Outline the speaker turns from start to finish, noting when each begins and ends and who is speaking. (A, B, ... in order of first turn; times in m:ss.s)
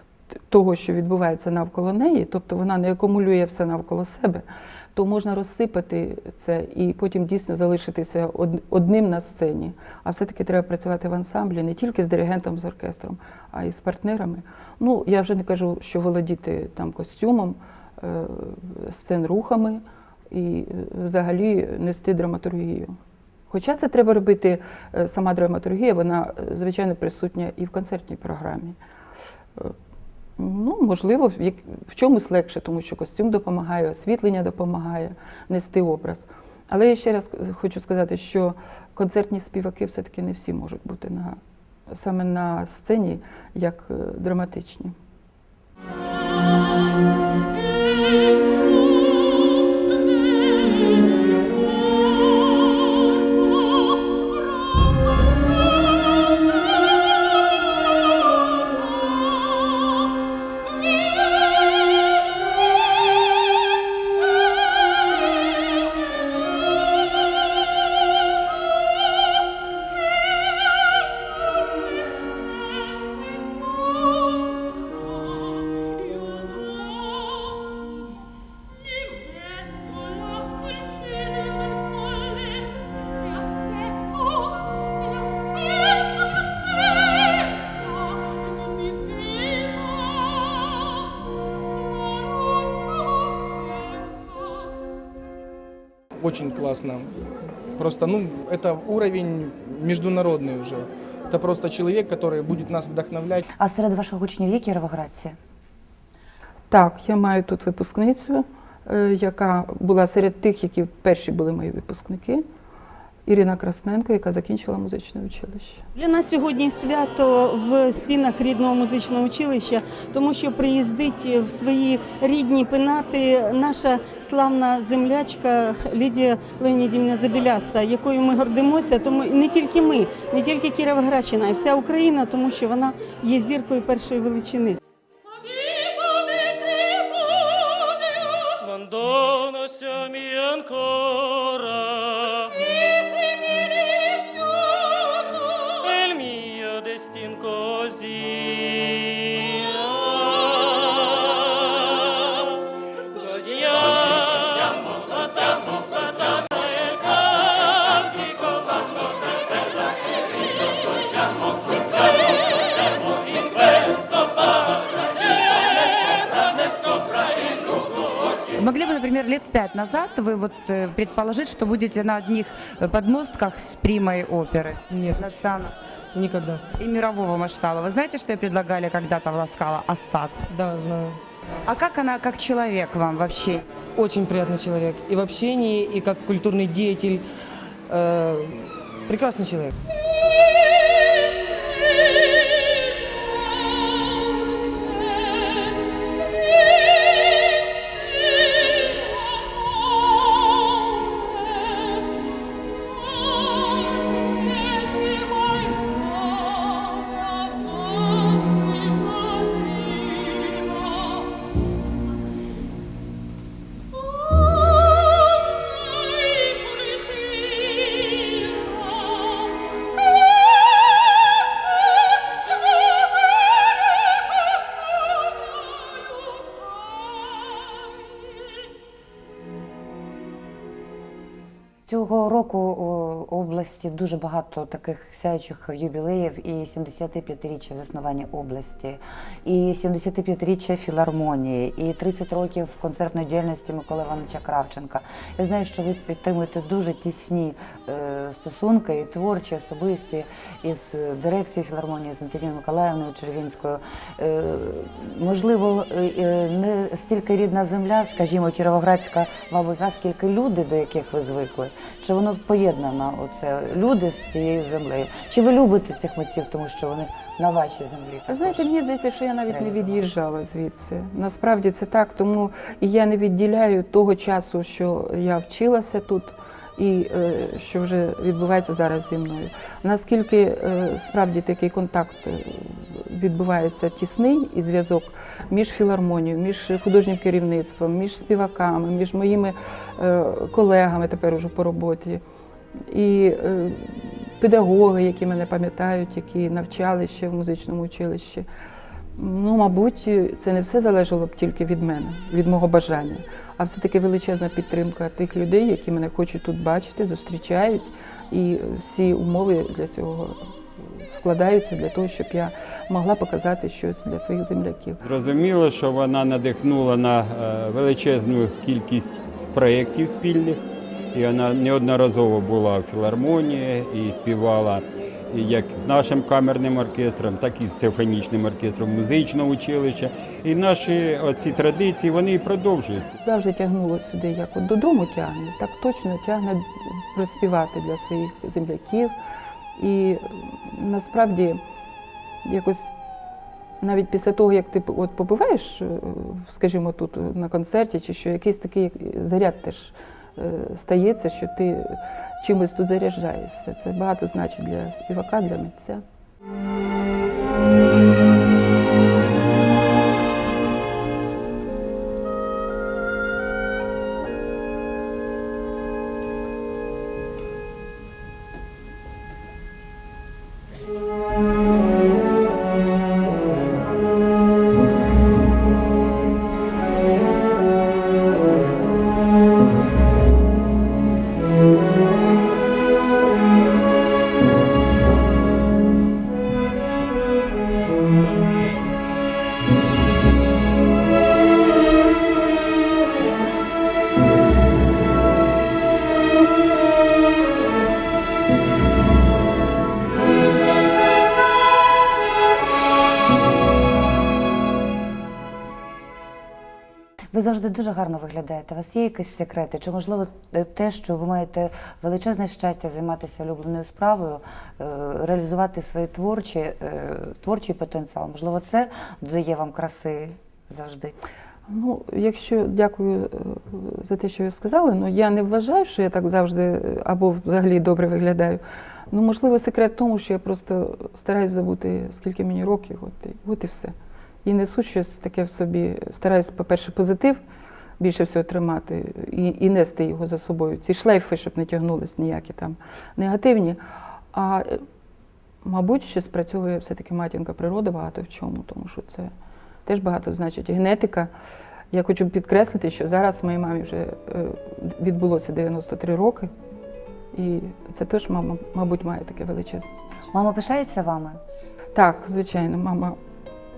0:00.5-0:22.9 A
0:23.5-0:28.8 A
0:30.4-0:41.4 A
0:41.9-0:44.9 A
1:36.2-1:37.2 B
1:37.7-1:43.4 B
1:43.6-1:45.4 C
1:46.7-1:52.4 A
1:53.2-1:55.8 A
1:56.0-2:14.8 D
2:18.6-2:22.5 E
2:25.7-2:30.7 E
2:33.1-2:38.4 E
2:48.6-2:55.7 F
2:54.9-2:55.2 G
2:56.1-2:56.7 G
2:56.8-3:00.4 F
3:00.5-3:01.2 G
3:01.7-3:03.6 F
3:04.0-3:07.2 G
3:07.9-3:09.7 G
3:51.8-4:28.7 C
4:28.3-4:52.2 A
4:29.5-4:30.0 C
4:52.9-4:58.4 A
4:59.2-5:15.0 A
5:15.0-5:20.6 H
5:21.1-5:33.2 H
5:33.2-5:39.1 A
5:39.8-5:41.6 A
5:42.4-5:42.9 A
5:43.8-5:56.0 A
6:47.3-7:01.2 C
7:01.7-7:13.9 A
7:14.4-7:17.4 A
7:18.0-7:23.8 A
7:24.3-7:24.8 A
7:25.6-7:29.3 A
7:29.8-7:31.3 A
7:31.9-7:36.5 A
7:37.3-7:39.9 A
7:40.3-7:41.4 C
7:41.9-7:43.2 A